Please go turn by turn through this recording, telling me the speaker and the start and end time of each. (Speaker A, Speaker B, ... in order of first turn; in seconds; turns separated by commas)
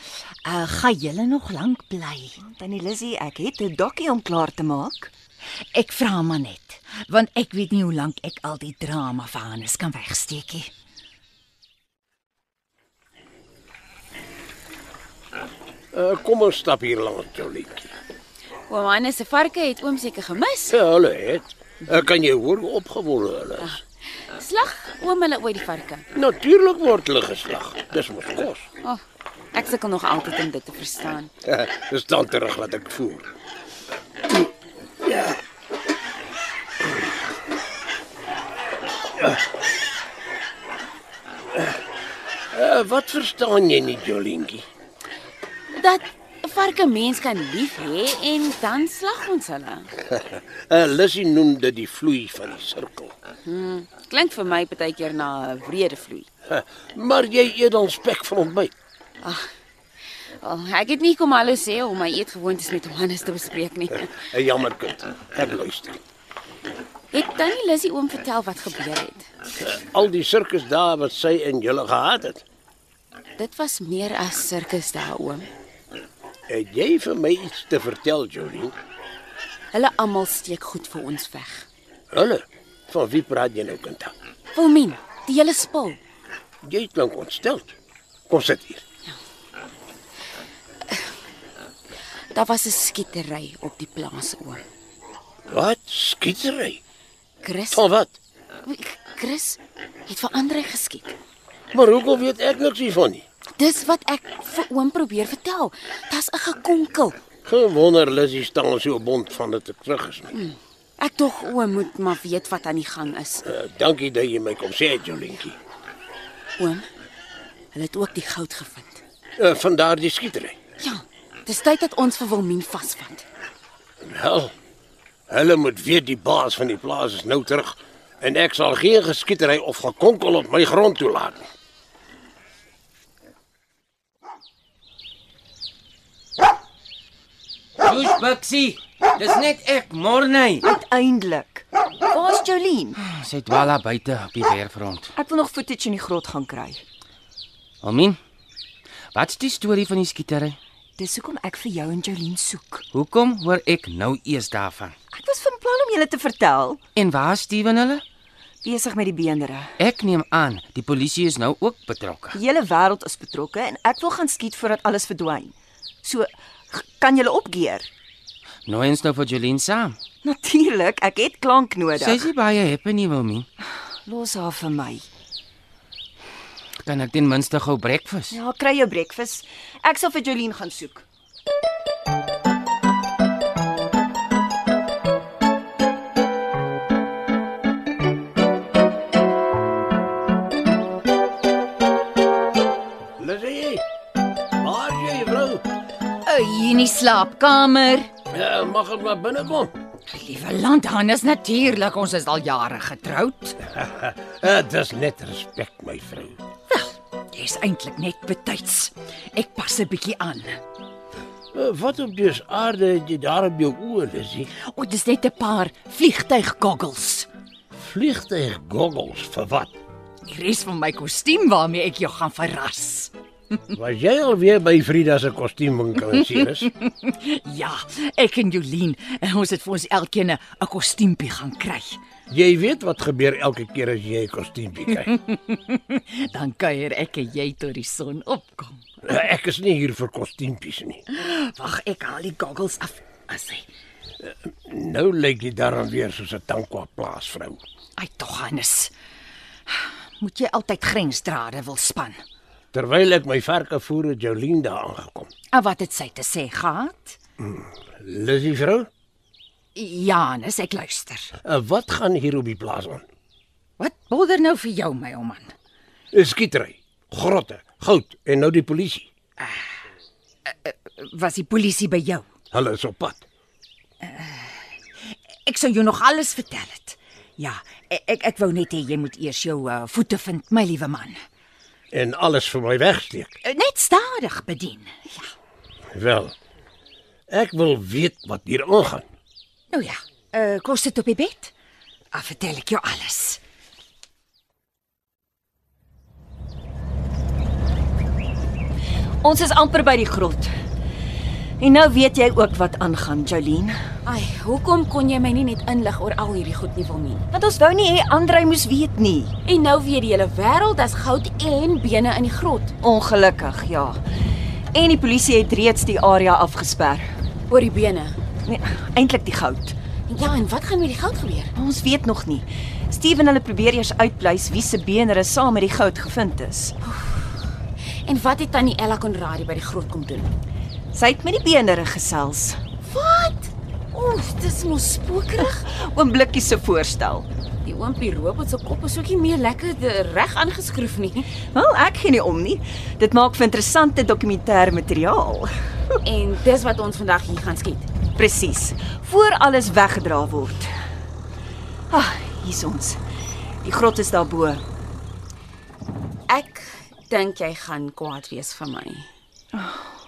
Speaker A: 0.4-2.4, Speaker B: 2.4-5.1, Speaker A: 5.7-10.7, Speaker C: 15.9-17.9, Speaker D: 18.7-20.8, Speaker C: 20.7-23.8, Speaker D: 24.3-26.0, Speaker C: 26.1-28.7, Speaker D: 29.5-31.3, Speaker C: 31.4-33.2, Speaker C: 42.5-44.6, Speaker D: 45.7-49.9, Speaker C: 50.0-53.1, Speaker D: 53.4-56.3, Speaker C: 56.5-58.7, Speaker D: 59.2-59.5, Speaker D: 60.4-64.1, Speaker C: 64.1-66.0, Speaker D: 67.1-69.3, Speaker C: 69.6-72.4, Speaker D: 73.4-75.5, Speaker C: 76.5-78.8, Speaker D: 79.7-81.7, Speaker C: 82.1-84.1, Speaker D: 84.5-86.0, Speaker C: 86.6-87.7, Speaker C: 88.3-88.8, Speaker D: 92.3-94.6, Speaker C: 95.5-96.8, Speaker D: 97.4-97.8, Speaker C: 97.7-98.2, Speaker D: 98.7-101.2, Speaker C: 101.7-103.2, Speaker D: 103.6-107.2, Speaker C: 107.4-110.3, Speaker D: 110.3-113.4, Speaker C: 113.5-115.6, Speaker D: 116.6-116.8, Speaker D: 117.7-119.0, Speaker C: 119.4-120.6, Speaker D: 120.8-123.2, Speaker C: 124.0-124.5, Speaker C: 125.3-131.4, Speaker E: 137.8-140.7, Speaker B: 140.6-143.0, Speaker E: 143.0-145.1, Speaker B: 145.2-146.8, Speaker E: 147.8-148.2, Speaker E: 149.1-150.6, Speaker B: 151.0-152.8, Speaker E: 152.9-154.9, Speaker B: 155.1-156.8, Speaker E: 156.9-158.0, Speaker B: 158.6-159.7, Speaker E: 159.8-162.4, Speaker B: 162.3-167.9, Speaker E: 168.7-170.0, Speaker B: 170.2-172.2, Speaker E: 171.9-173.5, Speaker B: 174.1-175.1, Speaker E: 176.8-178.4, Speaker B: 178.3-181.1, Speaker C: 193.2-193.8, Speaker C: 194.6-195.6, Speaker A: 196.3-198.1, Speaker C: 198.3-199.7, Speaker A: 200.1-203.6, Speaker C: 203.7-206.4, Speaker A: 206.7-210.6, Speaker C: 211.5-214.5, Speaker A: 214.7-217.3, Speaker C: 217.7-219.7, Speaker A: 220.3-223.1, Speaker C: 223.7-226.7, Speaker A: 226.2-232.0, Speaker C: 232.3-235.1, Speaker A: 235.0-238.8, Speaker C: 239.0-241.0, Speaker A: 241.1-243.7, Speaker C: 244.7-247.6, Speaker A: 248.0-248.9, Speaker A: 249.7-252.2, Speaker C: 252.7-255.3, Speaker A: 255.5-257.2, Speaker C: 257.4-258.9, Speaker A: 259.8-261.3, Speaker C: 261.4-263.0, Speaker A: 263.8-265.6, Speaker C: 266.1-269.1, Speaker A: 270.4-272.3, Speaker C: 272.5-273.2, Speaker A: 274.0-281.2, Speaker C: 281.9-283.3, Speaker A: 283.4-285.3, Speaker C: 285.9-286.3, Speaker C: 287.3-289.0, Speaker A: 289.7-291.5, Speaker A: 292.1-293.4, Speaker B: 299.2-300.5, Speaker B: 301.6-303.8, Speaker D: 304.1-307.2, Speaker B: 307.3-309.3, Speaker D: 309.4-312.7, Speaker B: 312.8-314.0, Speaker B: 314.7-317.1, Speaker D: 317.5-318.2, Speaker B: 318.4-319.8, Speaker D: 320.1-321.5, Speaker B: 321.6-326.8, Speaker D: 326.9-327.2, Speaker D: 328.1-330.3, Speaker B: 330.9-332.6, Speaker D: 332.8-335.6, Speaker B: 335.4-337.3, Speaker D: 337.6-341.4, Speaker B: 341.4-345.5, Speaker D: 346.1-347.9, Speaker B: 348.1-350.7, Speaker B: 351.9-353.0, Speaker B: 353.6-354.6, Speaker D: 356.3-359.1, Speaker B: 359.6-359.8